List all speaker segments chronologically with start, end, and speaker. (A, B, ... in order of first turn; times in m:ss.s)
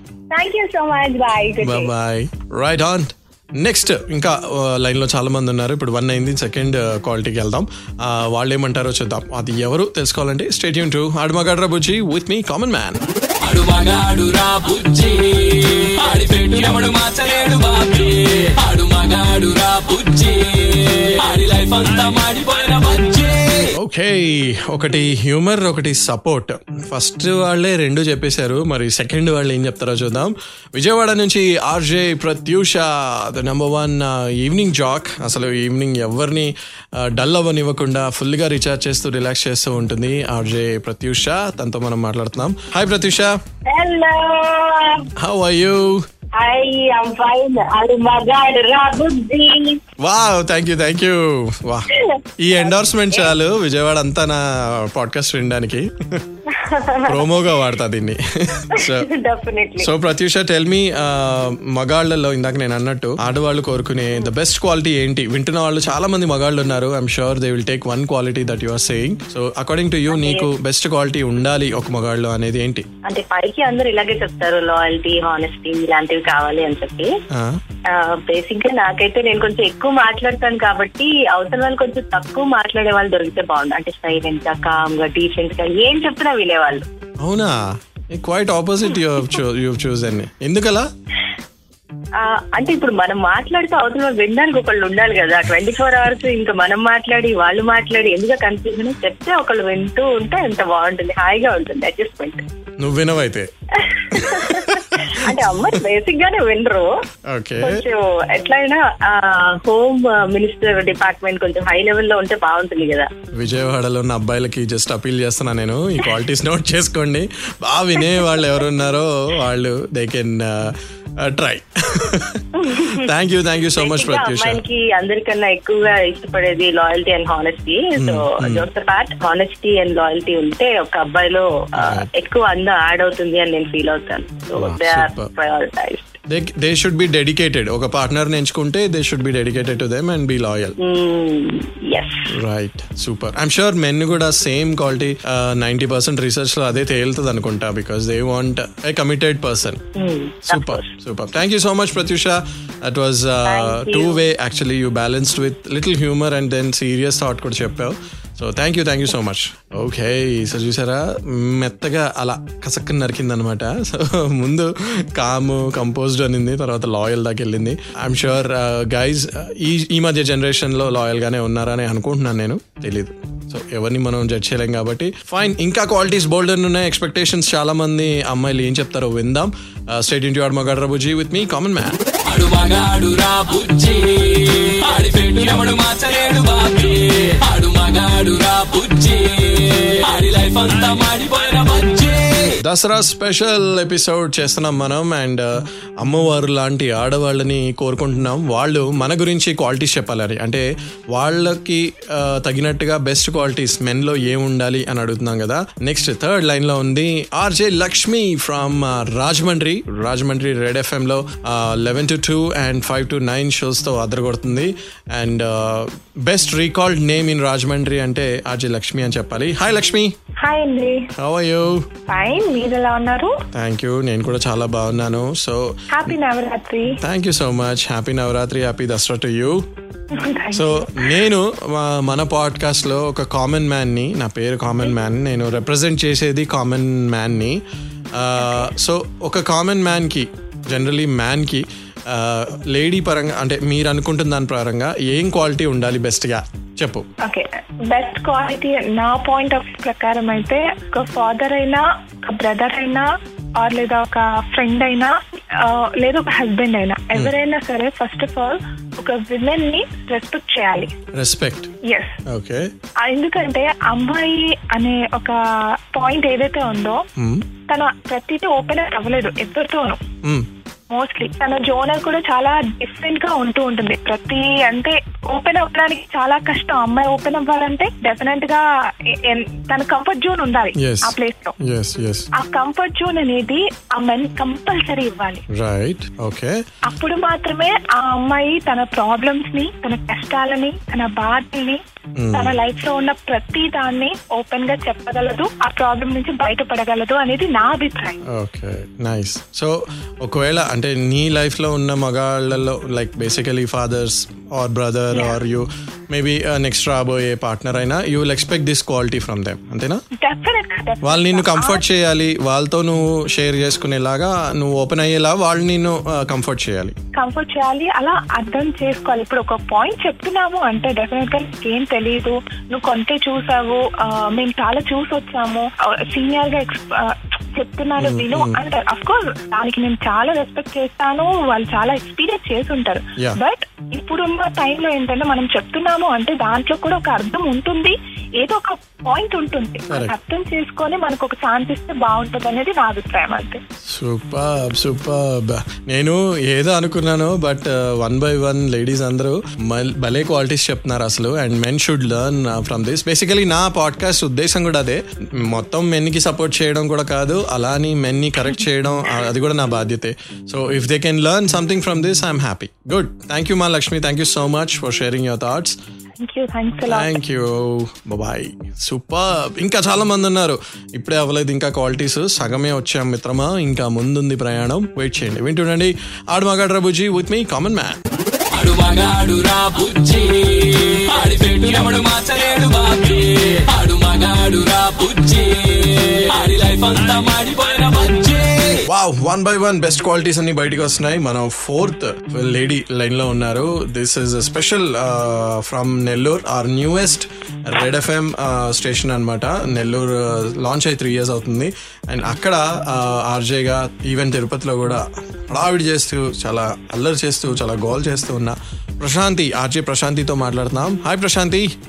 0:00.3-0:01.9 A
0:01.6-0:13.0 B
0:13.4-0:23.7 C
0:23.8-0:43.4 B
0:43.7-0:45.0 A
0:45.2-0:46.0 B
0:46.4-0:49.8 A
0:50.0-0:56.2 B
0:56.6-0:57.0 D
0:57.0-0:59.1 B
0:58.7-0:59.9 D
0:59.8-1:12.9 B
1:10.1-1:10.5 D
1:13.0-1:17.1 D
1:17.3-1:17.6 B
1:17.9-1:26.9 D
1:27.2-1:27.6 B
1:28.1-1:30.8 B
1:32.2-1:42.4 D
1:42.8-1:43.5 B
1:43.8-1:46.9 D
1:44.1-1:45.2 B
1:47.3-1:47.8 B
1:47.6-1:53.1 D
1:53.3-2:04.6 B
2:02.6-2:03.1 D
2:03.8-2:16.1 D
2:08.0-2:08.6 B
2:11.8-2:12.1 B
2:14.6-2:15.3 B
2:16.3-2:20.7 B
2:20.8-2:22.3 D
2:22.3-2:29.8 B
2:30.0-2:30.9 D
2:30.4-3:02.0 B
2:33.4-2:34.2 D
3:02.2-3:12.6 C
3:12.6-3:15.4 B
3:16.0-3:40.1 B
3:40.4-3:41.1 E
3:41.2-3:41.8 B
3:42.1-3:43.3 E
3:43.5-3:46.2 B
3:45.9-3:46.9 E
3:47.0-3:49.6 B
3:50.1-3:51.2 E
3:50.5-3:57.6 B
3:58.1-4:07.0 B
4:07.2-4:20.9 E
4:21.1-4:21.7 B
4:21.8-4:22.2 E
4:22.3-4:22.7 B
4:23.0-4:25.4 E
4:25.9-4:27.0 E
4:27.2-4:27.4 B
4:27.7-4:30.0 E
4:30.9-4:41.5 E
4:40.8-4:42.3 B
4:42.3-4:45.4 E
4:45.5-4:46.6 B
4:46.9-4:51.8 E
4:52.2-4:52.6 B
4:52.3-4:58.2 E
4:58.2-5:10.0 B
5:10.2-5:11.8 E
5:11.0-5:17.0 B
5:17.2-5:43.6 E
5:28.0-5:28.6 B
5:43.9-6:05.8 B
6:06.2-6:07.1 E
6:06.9-6:18.0 B
6:18.5-6:28.8 C
6:28.8-6:51.7 B